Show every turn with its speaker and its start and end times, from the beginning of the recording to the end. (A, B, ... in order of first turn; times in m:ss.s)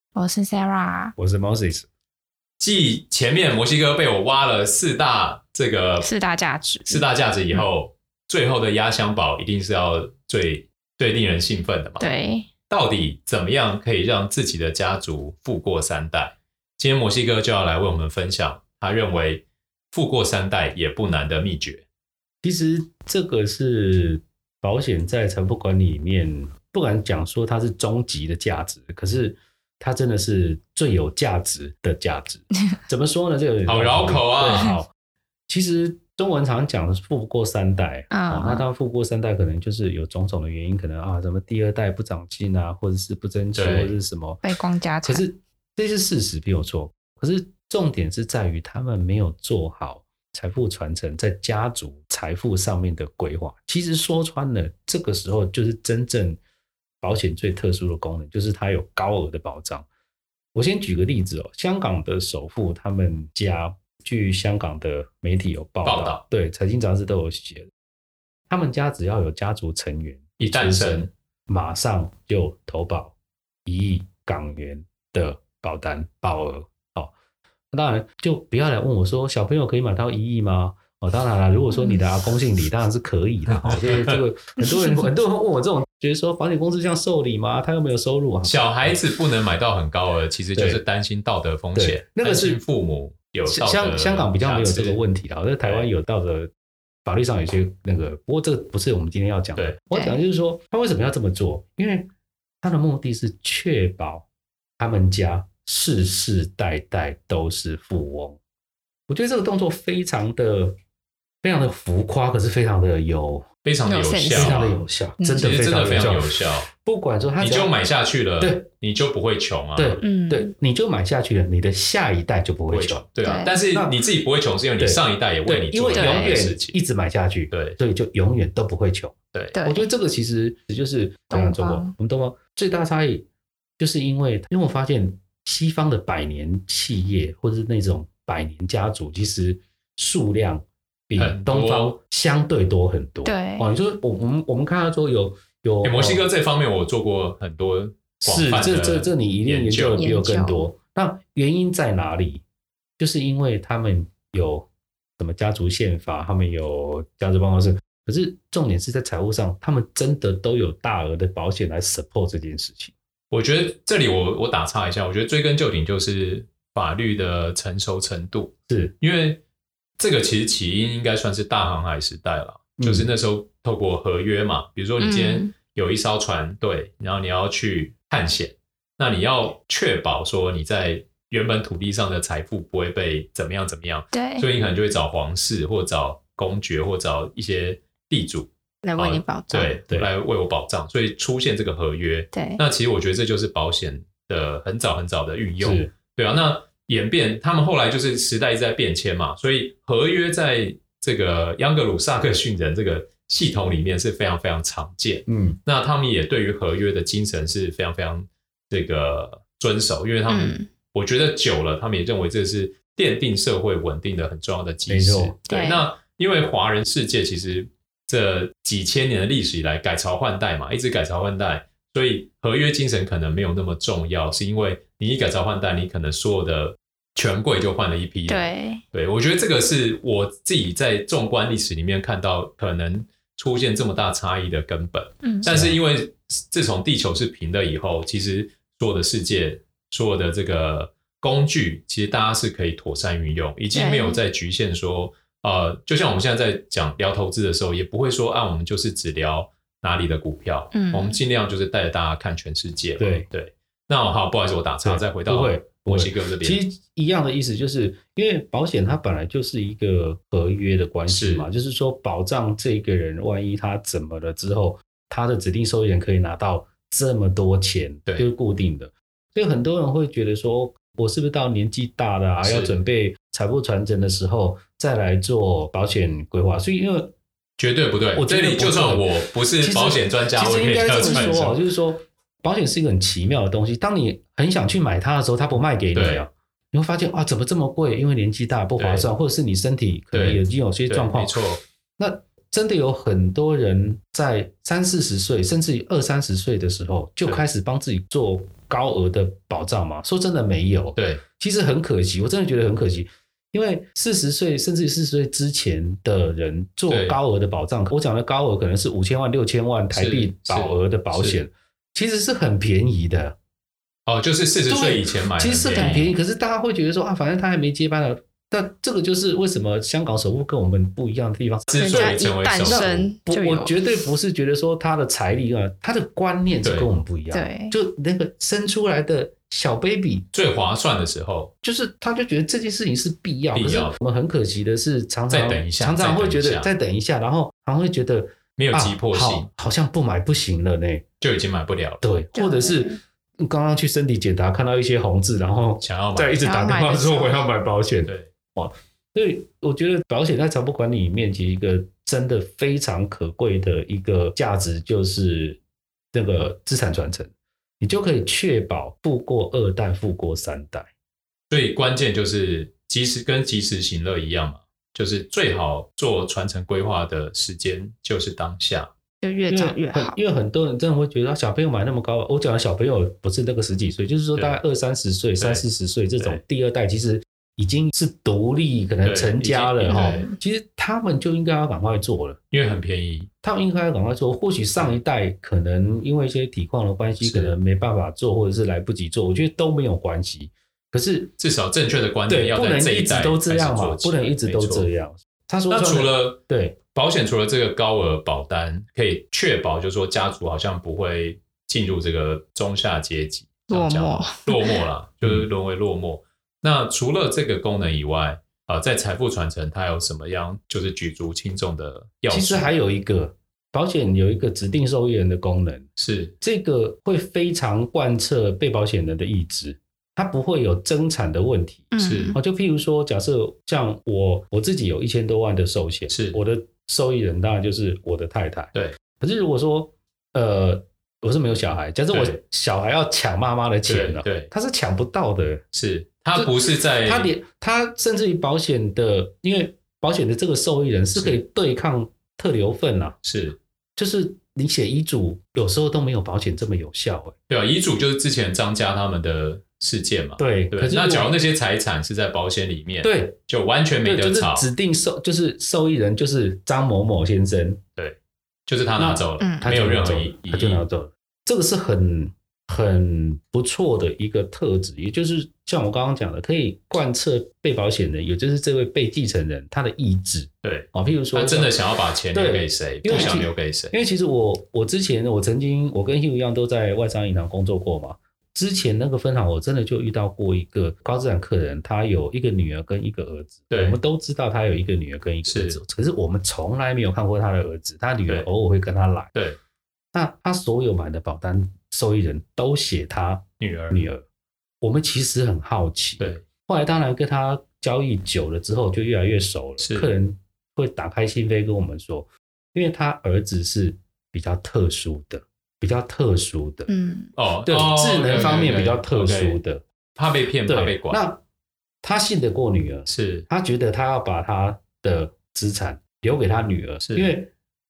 0:00.1-0:01.1 A
0:01.2-0:01.9 B
0:02.6-0:06.1 C
0:06.0-0:07.7 A
0:06.9-0:12.0 C
0:12.0-0:12.5 A
0:12.7-0:21.8 C
0:22.4-0:34.9 B
0:33.6-0:34.8 C
0:35.5-0:44.4 B
0:38.1-0:38.6 A
0:43.6-0:44.0 C
0:44.4-0:45.2 A
0:45.0-0:56.4 B
0:57.0-0:59.9 B
1:00.5-1:07.7 B
1:05.8-1:06.2 C
1:08.5-1:17.1 B
1:10.4-1:11.1 C
1:17.7-1:29.0 B
1:21.7-1:22.1 A
1:23.5-1:24.1 C
1:28.4-1:35.0 C
1:30.5-1:30.8 B
1:31.7-1:32.6 B
1:33.4-1:36.5 B
1:35.6-1:35.9 C
1:37.0-1:42.1 B
1:39.9-1:40.2 A
1:42.6-1:44.3 B
1:44.8-1:48.4 B
1:49.1-1:50.8 B
1:51.4-1:53.4 B
1:53.6-1:54.8 C
1:53.8-1:54.6 A
1:54.3-1:57.7 B
1:55.2-1:55.5 A
1:55.4-1:56.7 C
1:57.4-2:00.0 C
1:58.4-1:58.6 B
1:59.8-2:03.1 B
2:00.0-2:00.5 A
2:02.7-2:06.7 C
2:03.2-2:03.6 A
2:03.7-2:04.0 B
2:04.8-2:13.2 B
2:05.9-2:06.4 A
2:07.5-2:07.8 C
2:09.3-2:09.6 C
2:09.5-2:09.9 A
2:11.3-2:11.9 A
2:13.8-2:26.3 B
2:21.2-2:22.0 C
2:23.2-2:23.7 A
2:25.8-2:30.1 C
2:28.2-2:32.4 B
2:29.9-2:30.6 A
2:33.0-2:42.9 B
2:43.3-2:49.4 C
2:48.7-2:48.9 B
2:50.0-4:16.6 C
2:52.8-2:53.1 B
2:55.0-2:55.5 A
3:04.1-3:04.5 A
3:08.8-3:09.8 A
3:12.3-3:12.6 A
3:15.6-3:15.9 B
3:25.3-3:25.6 B
3:30.3-3:30.7 A
3:34.9-3:35.4 B
3:35.5-3:35.8 A
3:48.3-3:48.8 A
3:55.2-3:55.5 A
3:55.4-3:55.8 B
4:03.7-4:04.2 A
4:10.7-4:11.2 A
4:13.0-4:13.3 B
4:14.8-4:37.1 B
4:21.1-4:21.5 C
4:32.4-4:32.7 C
4:37.6-4:41.6 C
4:38.2-4:51.4 B
4:40.9-4:41.4 A
4:45.9-4:46.2 C
4:48.8-4:49.1 C
4:50.1-4:51.6 C
4:52.0-5:13.4 B
5:00.9-5:01.2 C
5:06.9-5:07.2 C
5:09.9-5:11.4 C
5:14.1-5:16.1 C
5:14.6-5:30.3 B
5:15.7-5:16.2 A
5:21.7-5:23.1 C
5:21.7-5:23.8 A
5:26.6-5:26.9 C
5:27.3-5:27.7 A
5:30.3-5:31.5 C
5:31.6-5:41.0 B
5:33.5-5:34.0 C
5:35.3-5:36.7 C
5:38.6-5:39.5 C
5:41.2-5:42.0 C
5:42.0-5:55.6 B
5:42.3-5:43.0 A
5:45.8-5:46.4 C
5:46.4-5:47.5 A
5:48.0-5:48.3 C
5:56.1-6:00.9 B
6:01.5-6:08.9 C
6:09.2-6:10.2 A
6:09.5-6:22.4 B
6:15.4-6:15.6 C
6:19.0-6:20.2 C
6:19.9-6:20.4 A
6:22.5-6:23.3 C
6:23.4-6:31.3 B
6:27.2-6:27.6 C
6:31.4-6:34.9 C
6:32.3-6:36.8 B
6:35.7-6:36.4 C
6:36.9-6:52.7 C
6:43.7-6:44.8 A
6:45.2-6:45.5 B
6:52.3-6:55.9 B
6:56.0-6:56.3 C
6:56.4-7:15.6 B
7:01.9-7:02.4 A
7:02.0-7:02.4 C
7:06.1-7:06.4 C
7:12.1-7:12.4 C
7:13.8-7:14.5 C
7:15.7-7:17.3 C
7:16.3-7:23.2 B
7:21.1-7:21.4 C
7:23.2-7:23.6 C
7:24.0-7:27.3 B
7:27.5-7:34.7 C
7:30.4-7:31.3 B
7:33.0-7:33.4 B
7:34.0-7:37.8 B
7:38.0-7:40.8 C
7:39.0-7:51.8 B
7:39.4-7:39.7 A
7:50.6-7:53.9 C
7:52.3-8:09.3 B
7:53.1-7:53.4 A
8:03.7-8:04.0 C
8:05.4-8:05.8 C
8:09.3-8:09.6 C
8:10.1-8:14.2 B
8:13.6-8:14.0 C
8:14.8-8:26.9 B
8:16.2-8:16.4 C
8:19.8-8:20.1 C
8:26.9-8:27.3 A
8:27.3-8:29.6 C
8:27.7-8:29.8 B
8:30.1-8:31.2 C
8:30.6-8:31.4 B
8:32.0-8:37.5 B
8:33.1-8:33.5 C
8:37.0-8:37.3 C